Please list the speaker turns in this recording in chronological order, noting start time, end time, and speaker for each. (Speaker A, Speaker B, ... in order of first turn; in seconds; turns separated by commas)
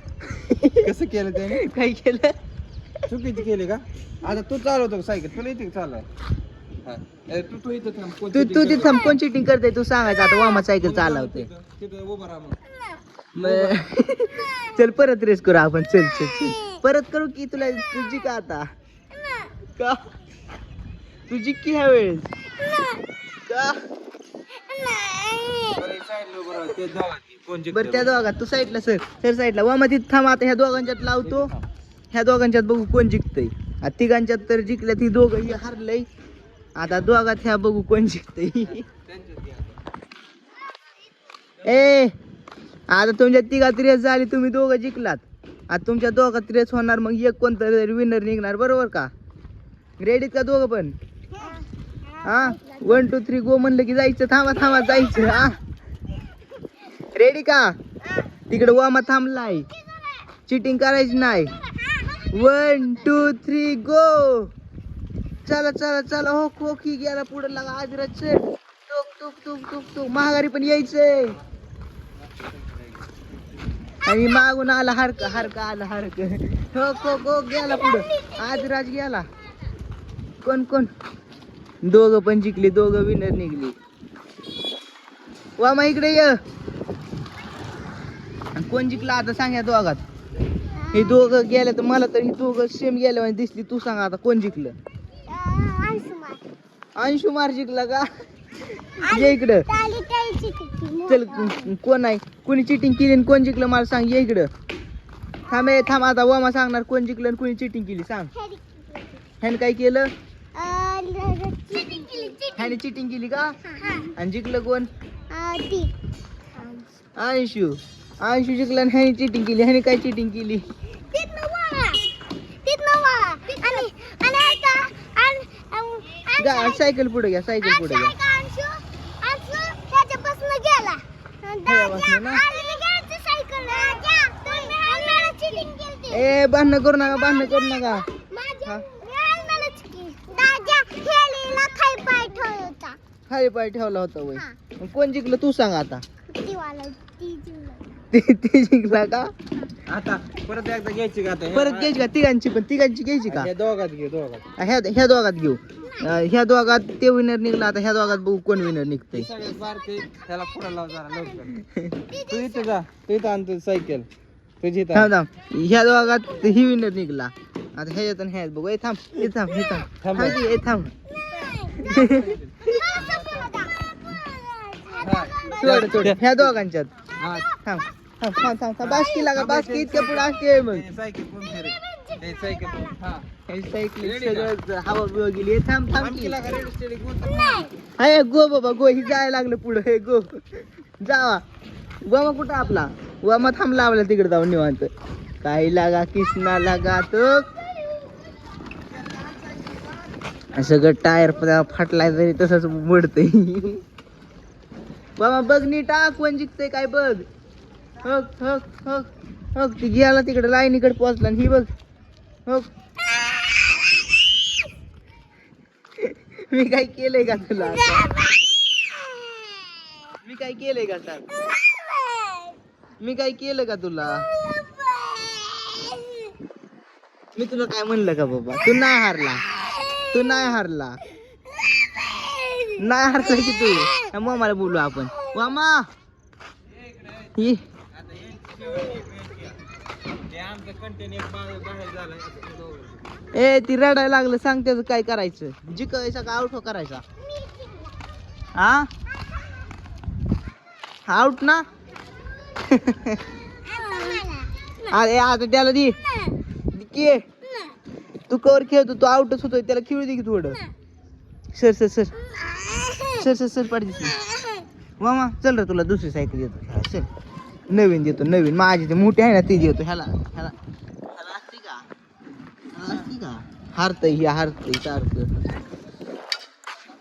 Speaker A: 0.2-2.4, Speaker B: 0.8-1.6, Speaker B: 3.1-6.0, Speaker B: 6.8-9.2, Speaker A: 8.3-11.5, Speaker B: 10.6-12.6, Speaker B: 13.3-13.8, Speaker A: 13.4-18.7, Speaker C: 16.5-16.8, Speaker C: 19.1-19.5, Speaker A: 19.8-20.0, Speaker A: 21.3-22.3, Speaker C: 22.6-23.0, Speaker A: 23.5-23.8, Speaker C: 24.5-25.8, Speaker B: 25.7-28.1, Speaker A: 27.7-31.5, Speaker B: 31.2-31.6, Speaker A: 32.1-36.1, Speaker A: 36.8-38.9, Speaker B: 38.7-39.8, Speaker A: 41.6-42.1, Speaker A: 42.9-49.1, Speaker A: 50.0-51.0, Speaker C: 51.3-53.0, Speaker A: 52.2-55.6, Speaker A: 57.1-57.7, Speaker A: 58.5-59.7, Speaker A: 60.5-61.5, Speaker A: 62.3-64.5, Speaker A: 65.5-71.4, Speaker A: 74.0-79.3, Speaker C: 77.6-78.4, Speaker A: 80.4-80.9, Speaker A: 81.8-83.7, Speaker A: 85.6-86.4, Speaker A: 88.5-90.0, Speaker C: 90.7-91.2, Speaker A: 90.9-94.7, Speaker C: 95.3-96.4, Speaker A: 97.0-98.1, Speaker A: 98.8-99.7, Speaker C: 99.0-101.7, Speaker A: 101.1-104.5, Speaker C: 105.4-106.0, Speaker A: 105.5-108.3, Speaker C: 108.3-109.2, Speaker A: 109.4-110.1, Speaker C: 110.5-112.8, Speaker A: 112.5-113.6, Speaker C: 113.7-114.1, Speaker A: 114.2-114.9, Speaker C: 115.3-115.9, Speaker C: 116.5-116.9, Speaker A: 117.2-120.7, Speaker C: 121.1-122.1, Speaker C: 122.6-126.9, Speaker A: 126.4-128.1, Speaker C: 127.6-136.3, Speaker A: 131.7-132.4, Speaker A: 136.1-138.1, Speaker C: 137.6-143.0, Speaker A: 143.3-146.0, Speaker C: 146.3-147.8, Speaker A: 148.1-149.3, Speaker B: 149.9-151.9, Speaker A: 151.5-153.5, Speaker B: 153.3-154.4, Speaker A: 154.6-159.3, Speaker B: 159.1-161.6, Speaker A: 161.6-161.9, Speaker C: 162.1-162.7, Speaker B: 162.3-164.1, Speaker B: 164.6-165.1, Speaker A: 164.9-170.9, Speaker B: 170.0-170.4, Speaker C: 171.1-171.9, Speaker A: 171.8-172.4, Speaker B: 171.8-173.5, Speaker C: 172.6-175.8, Speaker B: 175.0-176.5, Speaker A: 175.6-176.9, Speaker B: 177.2-177.6, Speaker A: 177.6-180.9, Speaker B: 178.8-183.2, Speaker C: 181.6-183.0, Speaker A: 183.5-186.4, Speaker B: 184.0-184.5, Speaker B: 186.0-187.7, Speaker C: 187.2-187.7, Speaker A: 188.0-191.4, Speaker A: 192.1-194.9, Speaker A: 195.4-197.5, Speaker A: 200.5-203.8, Speaker A: 205.2-207.2, Speaker A: 208.0-211.7, Speaker A: 216.0-218.1, Speaker C: 217.6-219.8, Speaker A: 220.2-221.2, Speaker C: 221.3-222.6, Speaker A: 223.0-224.3, Speaker C: 224.2-226.3, Speaker A: 227.3-229.4, Speaker C: 229.5-230.6, Speaker A: 230.1-231.0, Speaker C: 231.7-234.1, Speaker A: 232.8-235.8, Speaker B: 236.9-237.2, Speaker A: 237.3-237.6, Speaker B: 237.9-239.5, Speaker B: 240.3-243.1, Speaker A: 243.3-247.0, Speaker C: 247.2-248.0, Speaker A: 248.5-248.9, Speaker A: 251.1-251.6, Speaker A: 252.7-253.2, Speaker C: 253.6-254.9, Speaker A: 254.9-256.0, Speaker C: 256.1-256.3, Speaker A: 256.7-257.2, Speaker C: 257.5-257.7, Speaker A: 258.3-260.6, Speaker A: 261.5-262.1, Speaker C: 262.3-263.2, Speaker A: 263.1-264.1, Speaker C: 264.2-264.6, Speaker A: 265.0-267.1, Speaker A: 267.7-270.5, Speaker A: 271.1-271.8, Speaker A: 272.7-275.3